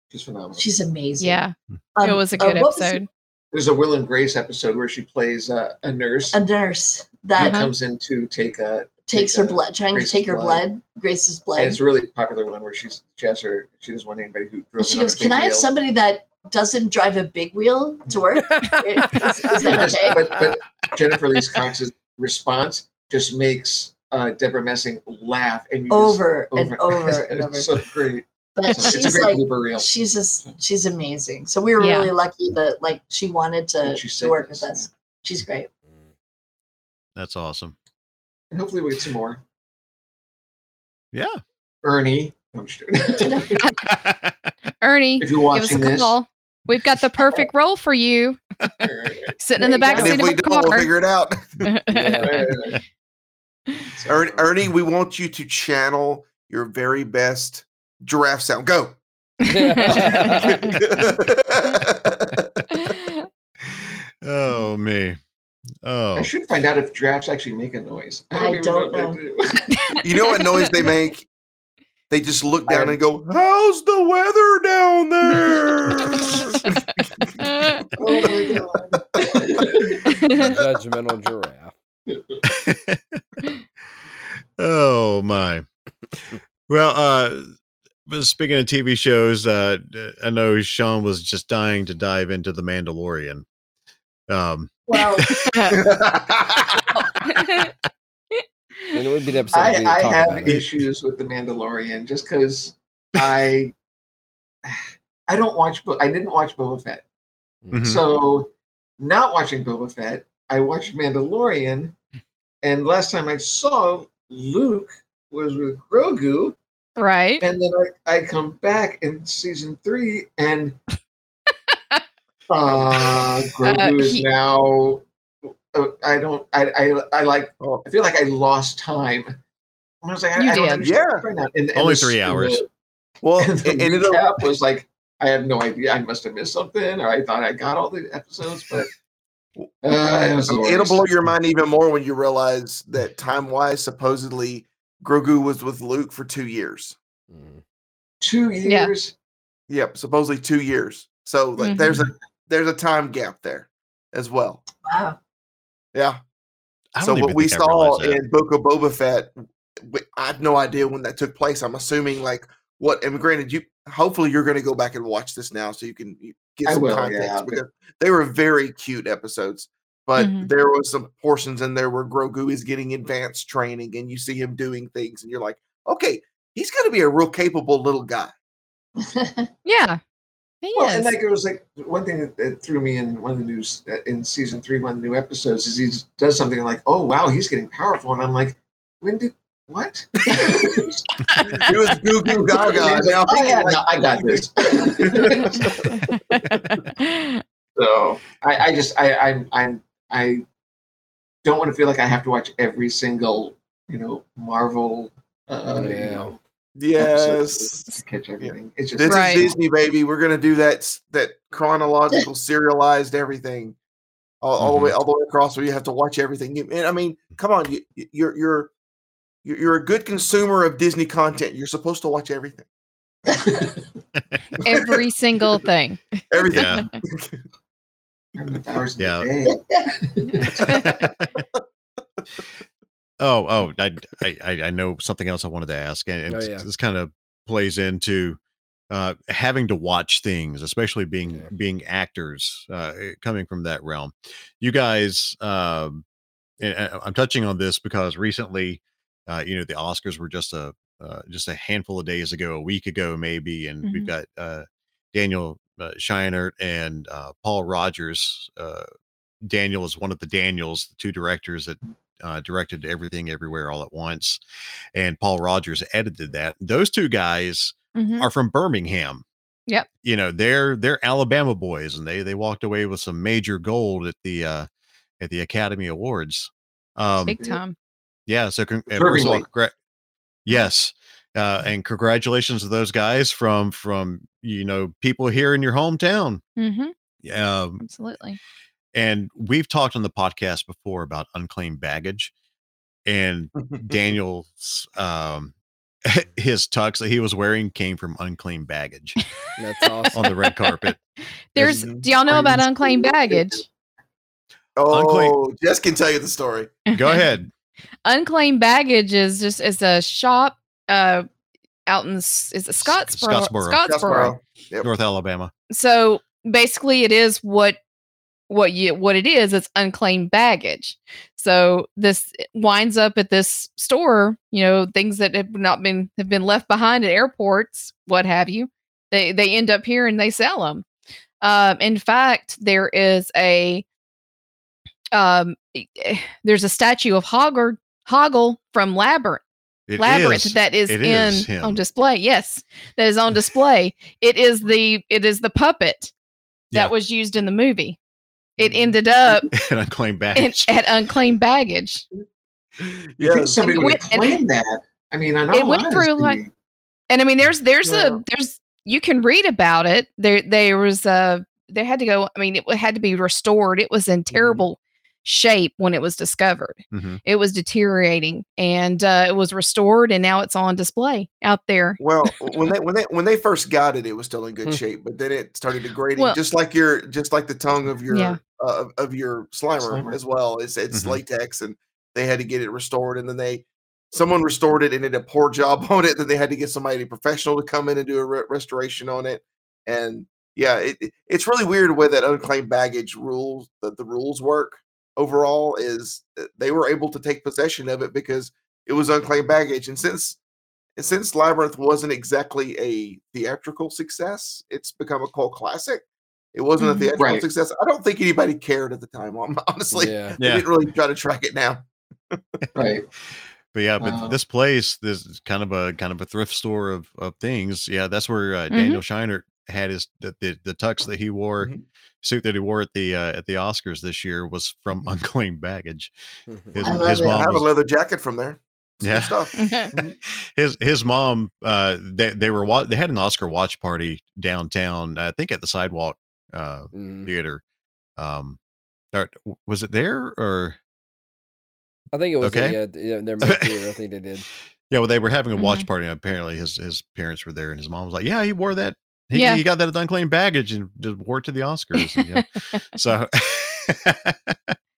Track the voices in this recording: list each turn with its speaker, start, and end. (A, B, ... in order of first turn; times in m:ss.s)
0:00.1-0:00.7 A
0:00.6-0:03.0 B
0:01.2-0:03.1 C
0:03.5-0:06.4 A
0:06.3-0:07.6 B
0:07.4-0:10.6 A
0:07.4-0:07.7 C
0:09.1-0:11.8 B
0:11.6-0:15.7 A
0:14.8-0:20.3 B
0:18.5-0:19.3 D
0:19.5-0:29.9 A
0:25.9-0:27.7 B
0:28.6-0:35.7 B
0:31.8-0:32.1 C
0:33.8-0:34.9 A
0:37.2-0:37.8 E
0:38.5-0:39.4 A
0:41.1-0:41.4 E
0:41.8-0:43.7 A
0:43.2-0:43.5 B
0:43.9-0:44.3 E
0:44.8-0:48.4 C
0:45.2-0:46.2 A
0:47.2-0:47.5 B
0:48.8-0:49.3 A
0:49.4-0:50.9 C
0:49.6-0:50.2 B
0:49.9-0:51.8 F
0:51.7-0:52.3 C
0:51.9-0:52.4 D
0:51.9-0:52.8 A
0:54.0-0:54.5 A
0:54.1-0:59.0 F
0:59.4-1:00.7 C
0:59.5-1:00.5 D
0:59.9-1:02.8 F
1:02.8-1:03.1 C
1:03.8-1:05.2 E
1:05.8-1:06.3 E
1:06.2-1:09.7 A
1:08.4-1:09.2 B
1:10.0-1:11.3 F
1:12.1-1:16.6 F
1:12.7-1:13.0 A
1:17.2-1:20.5 F
1:17.4-1:17.8 C
1:18.1-1:18.8 B
1:18.2-1:18.6 A
1:19.2-1:20.1 A
1:20.3-1:21.7 D
1:22.1-1:22.4 A
1:22.4-1:23.2 E
1:24.6-1:25.6 E
1:26.7-1:27.5 E
1:28.1-1:33.4 E
1:34.3-1:35.5 E
1:34.9-1:35.3 B
1:35.3-1:35.8 C
1:35.7-1:36.7 F
1:37.0-1:37.7 C
1:38.9-1:40.6 D
1:39.5-1:43.7 A
1:44.6-1:47.0 A
1:47.7-1:48.0 E
1:47.8-1:52.0 A
1:52.6-1:56.6 A
1:57.0-1:57.4 C
1:57.4-2:00.8 A
2:02.5-2:05.1 A
2:03.7-2:04.3 C
2:05.7-2:09.4 A
2:10.0-2:12.7 A
2:10.4-2:10.8 C
2:10.8-2:11.3 F
2:11.8-2:12.6 E
2:13.2-2:14.3 F
2:13.4-2:18.9 A
2:19.8-2:21.0 A
2:20.5-2:27.0 F
2:27.3-2:27.6 D
2:28.2-2:29.1 A
2:28.7-2:28.9 C
2:29.7-2:34.6 F
2:31.6-2:32.1 C
2:34.8-2:35.2 B
2:35.9-2:36.2 F
2:37.0-2:38.2 E
2:37.0-2:58.3 F
2:46.6-2:47.6 A
2:50.2-2:50.5 C
2:59.0-2:59.5 B
2:59.7-3:00.0 C
3:00.6-3:01.1 C
3:00.8-3:11.0 A
3:10.3-3:10.6 F
3:11.3-3:11.6 C
3:11.6-3:16.0 F
3:12.5-3:15.8 A
3:16.4-3:17.4 C
3:17.8-3:20.4 A
3:21.4-3:26.4 A
3:25.7-3:26.3 D
3:26.8-3:33.8 F
3:27.0-3:29.6 A
3:29.1-3:29.4 C
3:34.4-3:38.7 F
3:34.6-3:34.9 E
3:39.4-3:42.7 F
3:43.5-3:43.7 A
3:44.6-3:46.9 C
3:44.7-3:45.0 F
3:46.3-3:47.4 F
3:46.5-3:46.8 E
3:48.4-3:50.5 A
3:49.0-3:49.3 E
3:49.4-3:49.9 B
3:50.6-3:51.0 F
3:50.8-3:51.4 E
3:53.2-3:58.4 E
3:56.3-3:56.7 D
3:58.9-4:06.0 E
4:06.6-4:18.9 E
4:13.8-4:14.1 C
4:19.4-4:24.4 E
4:25.0-4:29.2 E
4:28.0-4:28.3 C
4:30.0-4:34.7 E
4:35.2-4:37.4 E
4:37.3-4:37.8 C
4:37.3-4:37.6 A
4:38.3-4:39.7 E
4:38.9-4:39.5 A
4:40.5-4:46.4 E
4:46.6-4:46.9 C
4:47.2-4:47.8 E
4:47.8-4:48.4 C
4:48.9-4:52.3 E
4:53.1-4:55.5 E
4:56.0-4:59.2 E
4:59.6-5:00.2 D
5:00.1-5:00.7 C
5:00.2-5:01.0 E
5:01.5-5:03.6 C
5:01.6-5:02.1 F
5:02.3-5:03.6 A
5:04.8-5:06.7 F
5:04.9-5:05.4 E
5:06.9-5:07.2 C
5:06.9-5:07.5 E
5:08.1-5:11.3 C
5:11.9-5:14.4 C
5:12.8-5:13.9 E
5:13.8-5:14.9 F
5:14.8-5:15.5 E
5:15.7-5:17.8 C
5:18.5-5:30.8 C
5:31.4-5:33.8 C
5:35.1-5:39.4 C
5:39.9-5:41.8 E
5:40.0-5:46.1 C
5:46.7-5:48.0 C
5:48.6-5:49.5 C
5:49.5-5:50.7 E
5:50.4-5:52.0 C
5:52.8-5:53.8 F
5:53.3-5:56.5 A
5:53.6-5:54.4 C
5:55.5-5:56.4 C
5:57.1-6:12.0 C
5:57.8-5:58.2 A
6:04.3-6:04.6 F
6:06.9-6:07.2 E
6:12.0-6:40.4 F
6:18.1-6:18.4 C
6:19.8-6:20.2 A
6:20.9-6:21.2 E
6:41.0-6:52.4 F
6:46.8-6:47.1 C
6:47.2-6:47.4 A
6:49.9-6:50.4 D
6:50.4-6:50.7 E
6:52.8-6:53.1 A
6:53.7-7:01.7 E
6:54.0-6:54.4 A
6:58.7-6:59.0 C
7:02.2-7:06.1 E
7:06.5-7:07.0 D
7:06.7-7:07.7 E
7:06.8-7:07.4 B
7:07.0-7:10.1 F
7:09.0-7:09.5 E
7:09.6-7:09.9 C
7:10.3-7:17.6 E
7:16.9-7:17.3 D
7:18.2-7:18.6 E
7:19.1-7:20.8 E
7:22.1-7:24.4 D
7:22.4-7:22.8 E
7:23.4-7:23.8 E
7:24.9-7:34.8 E
7:25.6-7:25.9 C
7:29.3-7:29.6 C